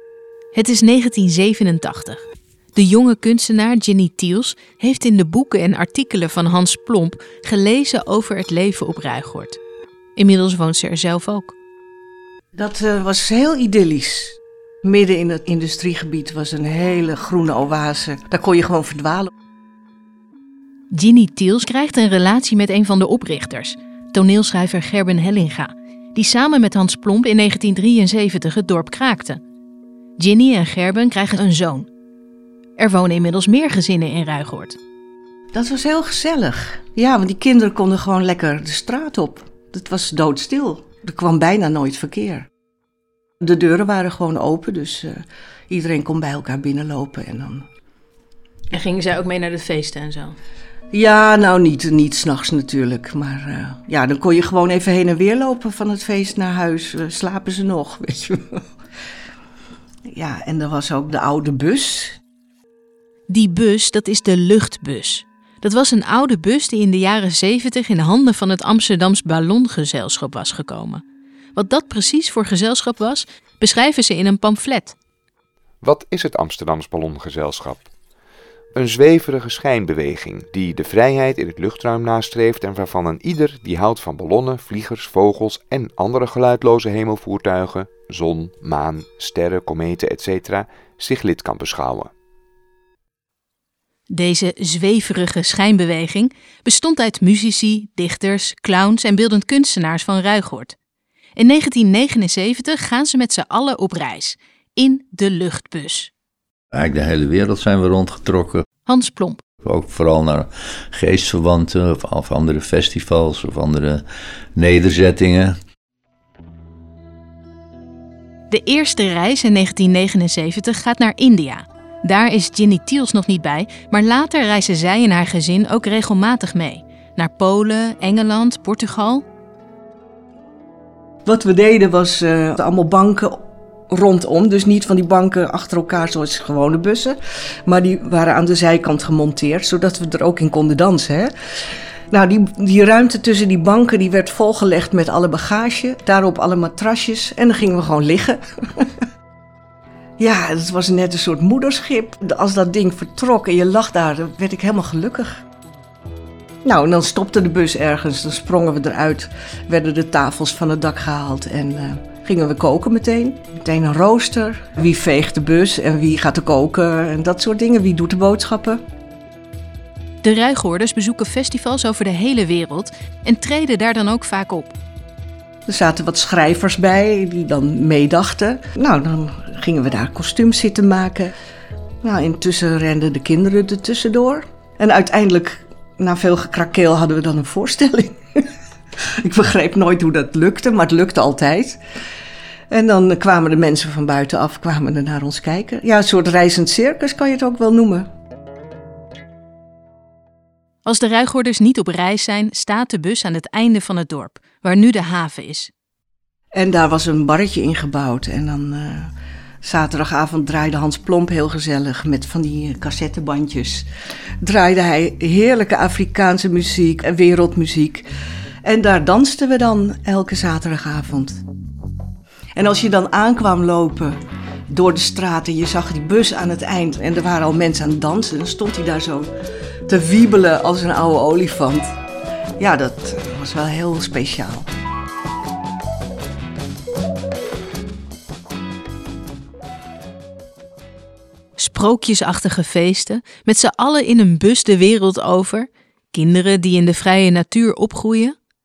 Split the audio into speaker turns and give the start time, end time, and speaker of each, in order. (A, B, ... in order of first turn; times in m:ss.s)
0:00.5-0:09.6 A
0:10.2-0:11.5 A
0:12.5-0:19.3 B
0:20.9-0:29.4 A
0:30.2-0:31.9 A
0:32.8-0:34.8 A
0:35.5-0:42.5 B
0:43.4-0:47.7 B
0:48.7-0:50.4 A
0:50.9-0:58.6 B
1:00.1-1:02.2 B
1:03.3-1:11.0 A
1:11.6-1:15.0 A
1:15.8-1:17.9 C
1:18.7-1:32.1 C
1:34.1-1:40.8 A
1:41.4-1:46.1 A
1:46.7-1:48.6 D
1:48.9-1:49.4 A
1:49.6-1:54.0 D
1:54.6-1:55.5 D
1:58.5-2:09.2 A
2:11.2-2:21.3 B
2:22.1-2:28.9 B
2:30.2-2:35.4 B
2:36.6-2:48.8 B
2:50.2-2:54.7 A
2:55.7-3:01.3 B
3:02.0-3:08.5 B
3:09.2-3:11.8 B
3:12.7-3:18.1 B
3:20.8-3:25.7 A
3:26.5-3:29.1 B
3:29.6-3:33.8 B
3:34.4-3:38.1 B
3:38.6-3:41.4 B
3:42.6-3:44.2 B
3:44.7-3:49.3 B
3:49.9-3:51.9 B
3:52.6-3:54.7 B
4:01.6-4:08.3 A